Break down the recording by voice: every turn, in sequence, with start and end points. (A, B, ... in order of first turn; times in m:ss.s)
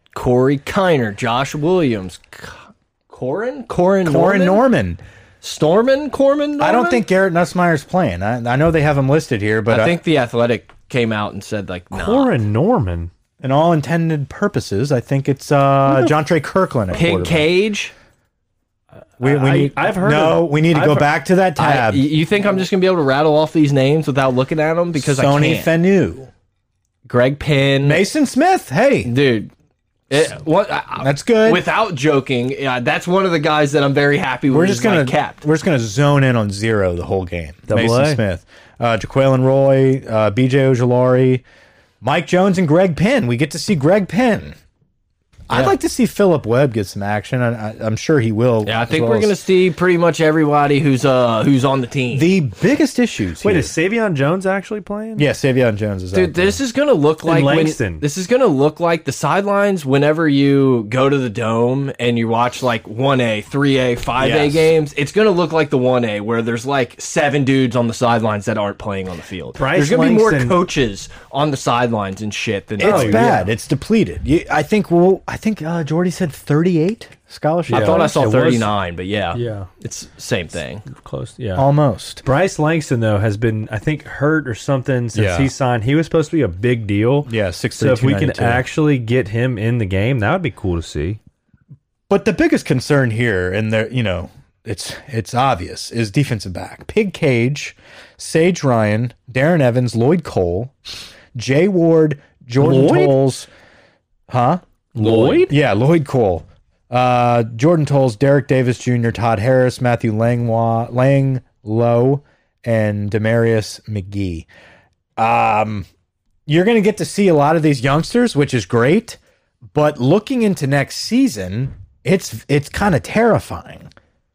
0:00.1-0:04.6 A
0:04.0-0:05.0 B
0:05.4-0:07.0 A
0:06.6-0:10.0 B
0:09.7-0:12.3 A
0:11.9-0:13.1 C
0:13.4-0:17.5 B
0:16.9-0:17.9 A
0:19.2-0:21.1 C
0:19.2-0:22.1 B
0:21.6-0:25.7 A
0:25.0-0:26.3 B
0:27.1-0:28.0 A
0:27.8-0:29.1 B
0:29.0-0:29.5 A
0:30.1-0:35.4 A
0:31.0-0:31.6 B
0:34.5-0:41.4 B
0:37.7-0:38.2 C
0:42.0-0:44.6 B
0:45.5-0:49.4 B
0:48.6-0:52.3 A
0:52.1-0:53.7 B
0:53.4-0:55.3 C
0:55.2-0:56.6 B
0:56.1-1:13.5 A
0:57.3-0:58.0 C
1:04.2-1:04.7 B
1:09.6-1:10.6 C
1:12.8-1:18.1 B
1:12.8-1:13.4 C
1:17.7-1:18.7 C
1:17.7-1:20.8 A
1:19.3-1:19.7 C
1:20.9-1:21.7 C
1:21.6-1:22.2 B
1:22.2-1:31.2 C
1:25.1-1:25.5 B
1:27.3-1:28.7 B
1:32.1-1:40.7 B
1:41.4-1:43.5 B
1:42.6-1:43.2 C
1:44.3-1:44.6 B
1:45.0-1:45.5 C
1:45.0-1:45.5 A
1:45.5-1:54.5 B
1:55.2-1:55.9 B
1:56.5-1:59.2 B
1:59.7-2:03.9 B